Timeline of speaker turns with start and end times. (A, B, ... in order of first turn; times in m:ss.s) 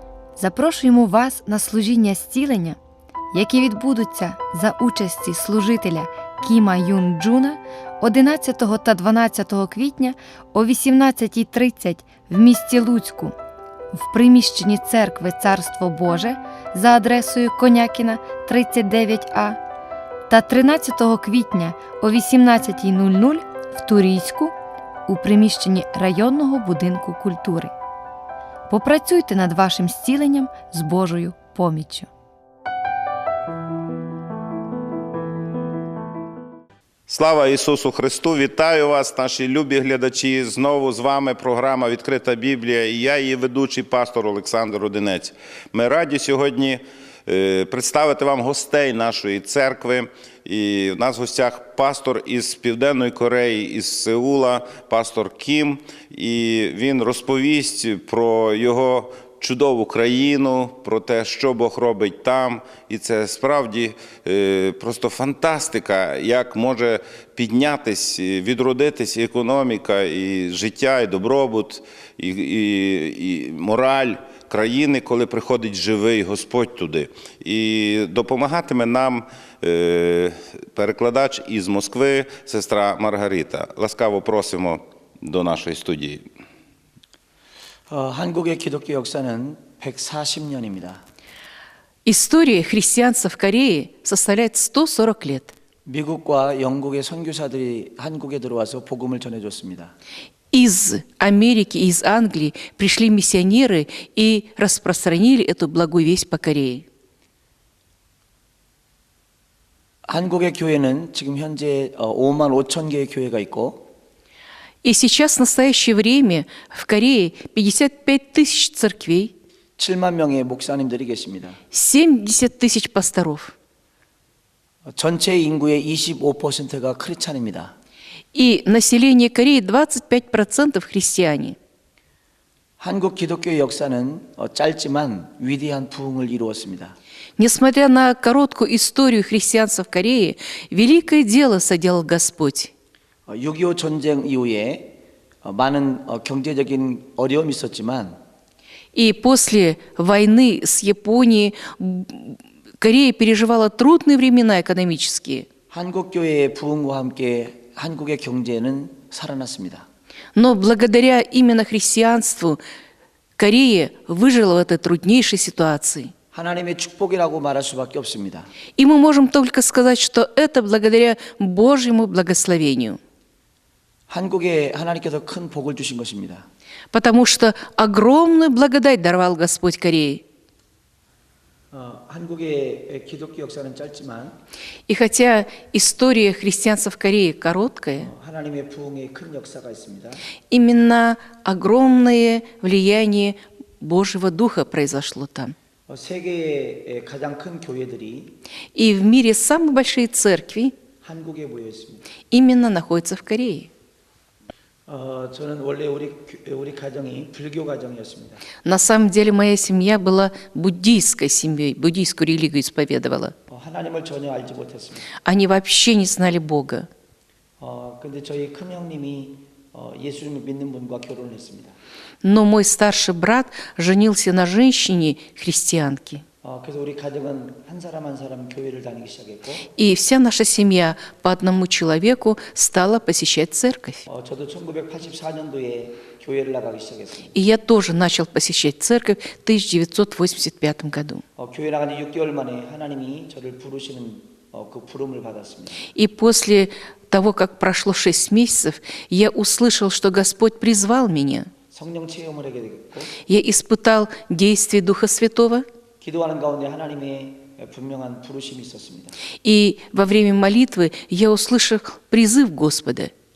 0:00.3-0:02.8 A
0:03.3-0:13.3 A
0:13.9-0:19.6 A
0:20.3-0:24.5 A
0:25.1-0:27.7 A
0:28.7-0:32.1 A
0:37.1-1:26.2 B
1:27.9-1:31.0 C
1:32.0-1:35.5 D
1:35.8-1:39.9 C
1:40.5-1:46.8 D
1:50.1-1:53.8 C
1:54.8-1:59.3 D
1:59.8-2:01.6 C
2:01.7-2:03.5 D
2:04.9-2:07.7 C
2:08.3-2:11.6 D
2:12.8-2:17.0 C
2:17.4-2:22.7 D
2:23.3-2:28.2 C
2:28.9-2:35.5 D
2:35.7-2:39.8 C
2:40.3-2:42.6 D
2:43.4-2:46.1 D
2:46.3-2:48.5 C
2:48.8-2:53.0 D
2:54.1-2:56.4 C
2:56.9-3:00.2 D
3:01.7-3:04.3 C
3:04.9-3:08.1 D
3:08.0-3:10.2 C
3:10.5-3:15.5 D
3:15.9-3:18.3 C
3:18.7-3:20.7 D
3:21.0-3:22.0 C
3:22.3-3:23.7 D
3:24.9-3:28.4 C
3:28.6-3:33.3 D
3:33.5-3:35.1 C
3:35.2-3:36.9 D
3:37.6-3:41.8 C
3:42.2-3:46.2 D
3:46.4-3:49.6 C
3:49.8-3:54.0 D
3:54.1-3:57.3 C
3:57.3-4:01.2 D
4:01.4-4:05.8 C
4:05.9-4:11.5 D
4:11.7-4:13.1 C
4:13.3-4:15.6 D
4:16.0-4:19.1 C
4:19.4-4:23.1 D